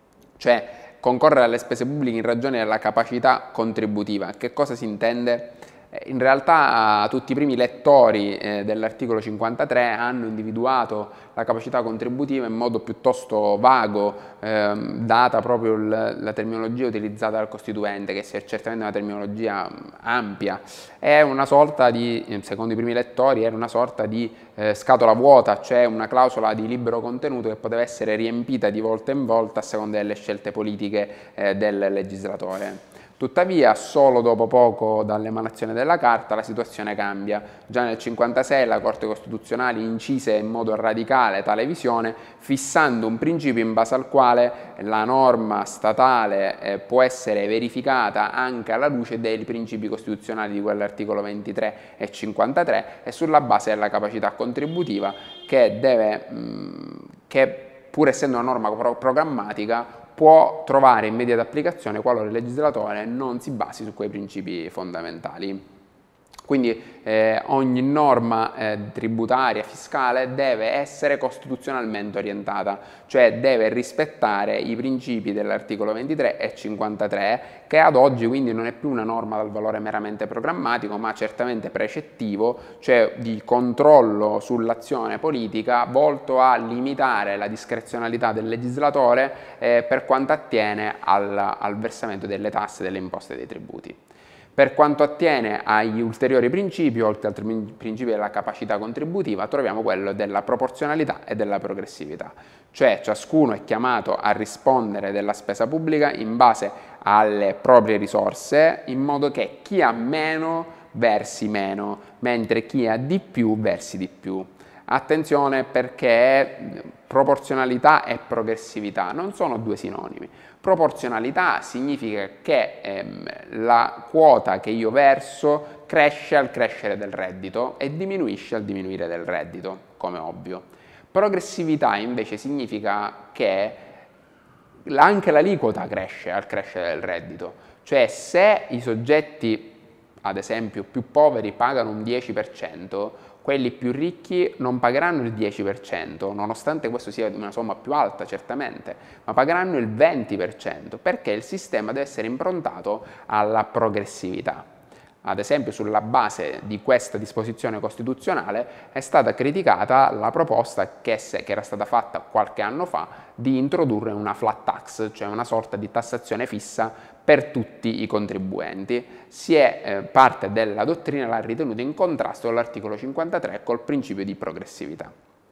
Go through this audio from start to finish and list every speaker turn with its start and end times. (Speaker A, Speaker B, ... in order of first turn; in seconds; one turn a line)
Speaker A: 0.4-65.6
Speaker A: 66.5-94.0
Speaker A: 94.5-133.9
Speaker A: 134.8-154.7
Speaker A: 155.2-175.1